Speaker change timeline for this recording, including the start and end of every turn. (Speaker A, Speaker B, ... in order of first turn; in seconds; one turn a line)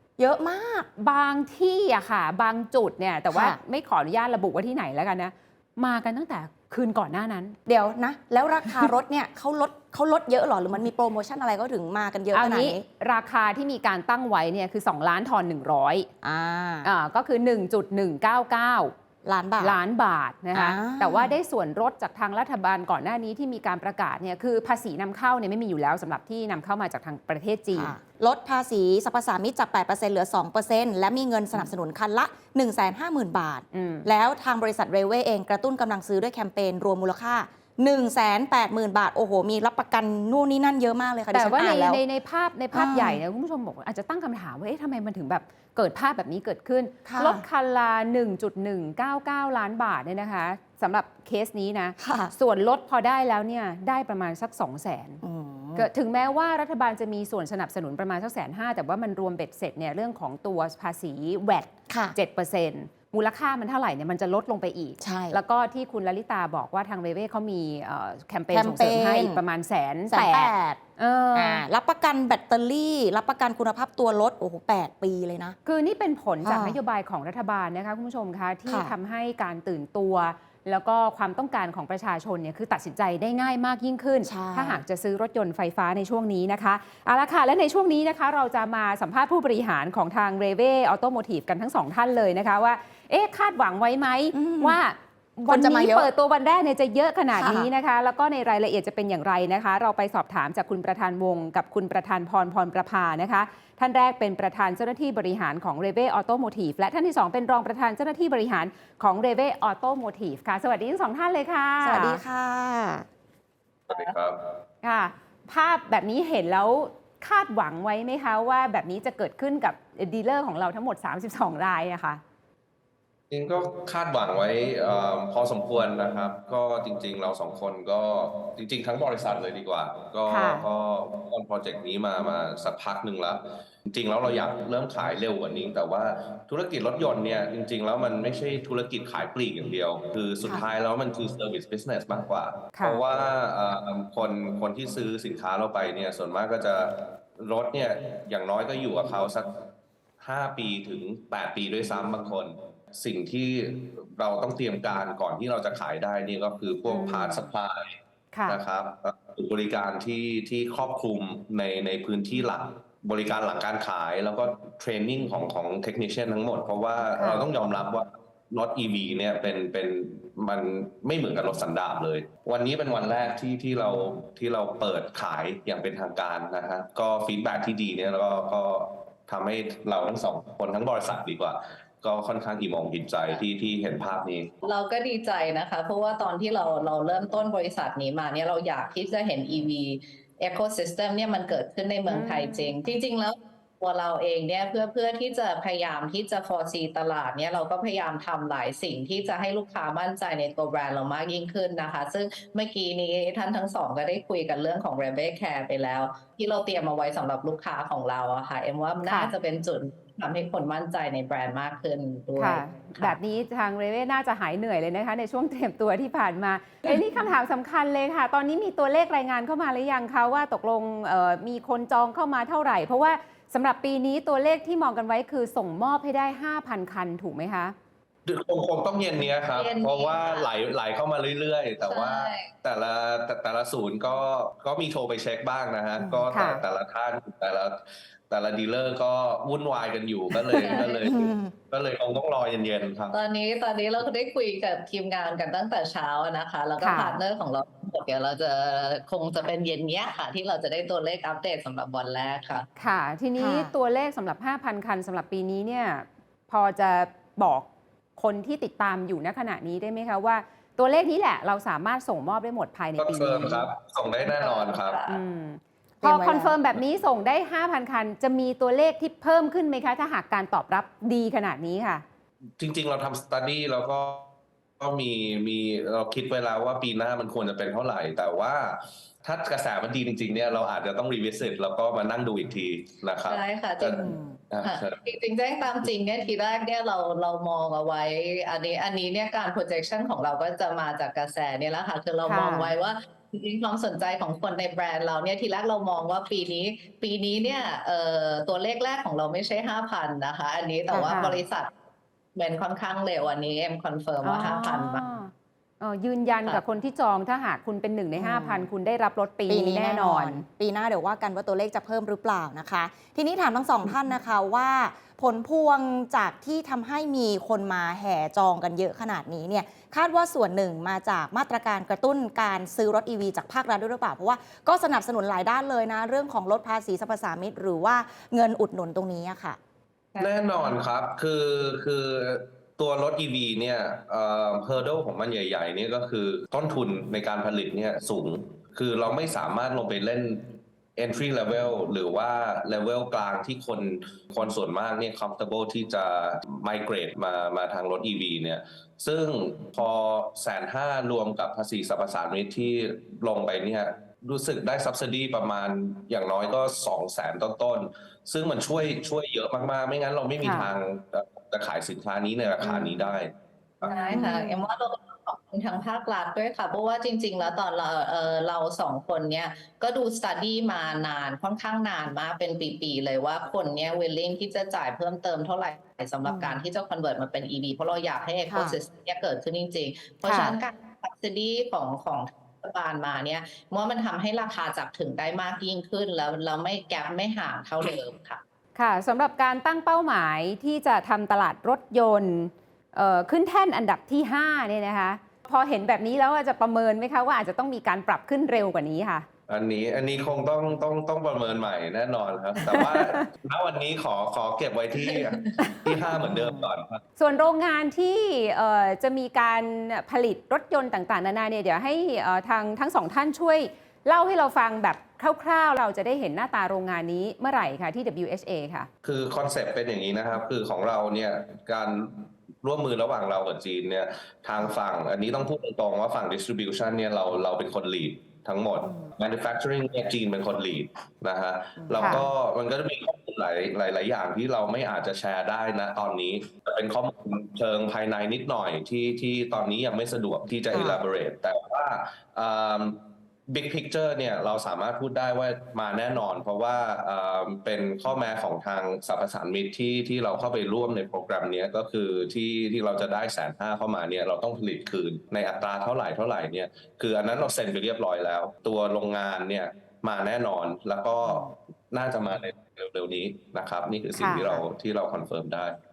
Speaker A: 0.2-0.9
Speaker B: 1.0-7.6
Speaker A: 3.3-3.6
Speaker A: 7.7-12.8
Speaker B: 12.3-16.1
Speaker A: 16.2-16.9
Speaker B: 16.8-18.9
Speaker A: 19.2-19.8
Speaker B: 19.6-27.9
Speaker A: 20.5-21.3
Speaker A: 27.8-42.0
Speaker B: 33.7-34.1
Speaker B: 41.3-55.2
Speaker A: 42.7-43.2
Speaker A: 47.0-47.4
Speaker A: 52.0-52.3
Speaker A: 55.2-55.9
Speaker B: 55.8-71.6
Speaker A: 61.9-62.2
Speaker A: 65.0-65.4
Speaker A: 68.5-69.4
Speaker A: 70.1-70.8
Speaker A: 71.3-75.6
Speaker B: 75.7-112.2
Speaker A: 76.4-76.8
Speaker A: 78.7-78.9
Speaker A: 84.2-84.8
Speaker A: 94.3-94.8
Speaker A: 95.5-96.1
Speaker A: 97.3-97.7
Speaker A: 111.8-113.1
Speaker C: 113.9-114.4
Speaker B: 114.8-122.2
Speaker C: 123.3-149.5
Speaker B: 130.3-130.7
Speaker B: 142.8-143.0
Speaker C: 150.2-184.5
Speaker B: 156.9-157.5
Speaker B: 158.3-158.6
Speaker B: 167.2-167.4
Speaker D: 184.6-213.2
Speaker B: 192.1-192.8
Speaker B: 209.1-209.3
Speaker B: 212.4-227.8
Speaker C: 228.3-243.1
Speaker D: 229.5-230.5
Speaker D: 231.8-232.5
Speaker A: 236.0-236.3
Speaker B: 236.3-236.6
Speaker A: 240.5-241.5
Speaker D: 243.1-252.7
Speaker B: 246.8-247.2
Speaker B: 252.8-263.7
Speaker A: 253.4-253.7
Speaker C: 263.0-265.0
Speaker D: 264.2-265.2
Speaker B: 265.1-272.0
Speaker A: 266.0-266.6
Speaker C: 272.6-285.0
Speaker D: 283.3-284.1
Speaker D: 284.6-301.7
Speaker B: 292.2-292.7
Speaker A: 300.9-301.2
Speaker B: 301.1-301.4
Speaker D: 302.4-305.0
Speaker B: 304.2-310.4
Speaker A: 308.1-308.7
Speaker A: 309.5-329.6
Speaker C: 330.2-340.4
Speaker C: 341.0-364.2
Speaker B: 360.4-360.7
Speaker D: 363.9-388.4
Speaker B: 363.9-364.6
Speaker A: 376.2-376.6
Speaker A: 378.5-378.8
Speaker B: 380.2-380.6
Speaker B: 388.8-399.3
Speaker C: 399.5-407.0
Speaker B: 402.7-403.2
Speaker A: 406.3-406.7
Speaker B: 407.2-418.9
Speaker C: 419.0-465.8
Speaker A: 428.8-429.1
Speaker A: 431.8-432.3
Speaker B: 432.0-432.3
Speaker A: 440.7-441.0
Speaker B: 464.2-464.5